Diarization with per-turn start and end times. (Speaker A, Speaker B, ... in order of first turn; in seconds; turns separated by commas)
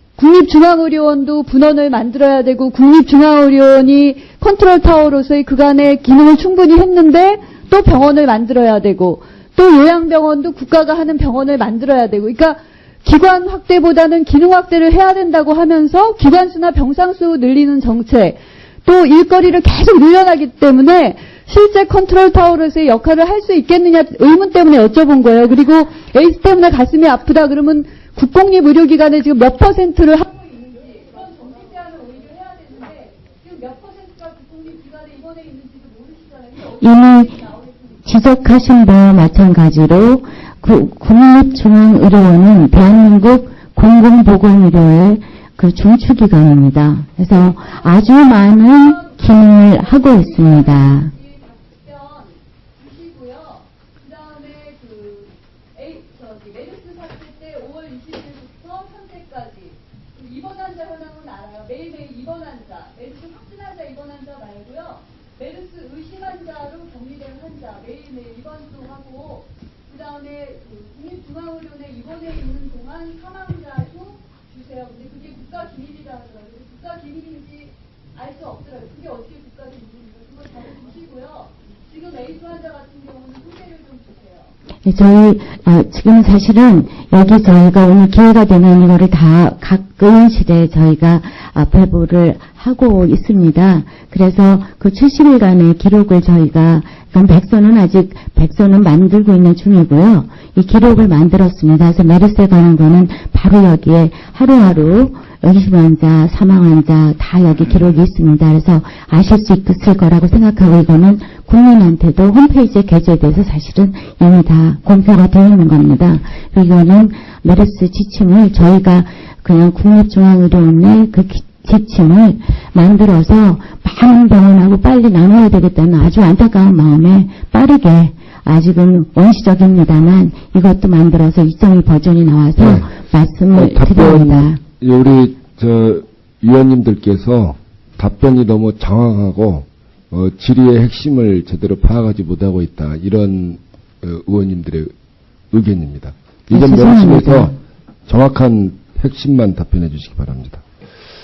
Speaker A: 0.1-37.8, Speaker B: 36.8-37.4, Speaker B: 38.0-51.1, Speaker A: 48.9-84.5, Speaker B: 84.8-134.6, Speaker C: 132.6-132.9, Speaker C: 133.5-144.9, Speaker C: 145.5-147.6, Speaker B: 146.5-147.6, Speaker C: 148.1-150.6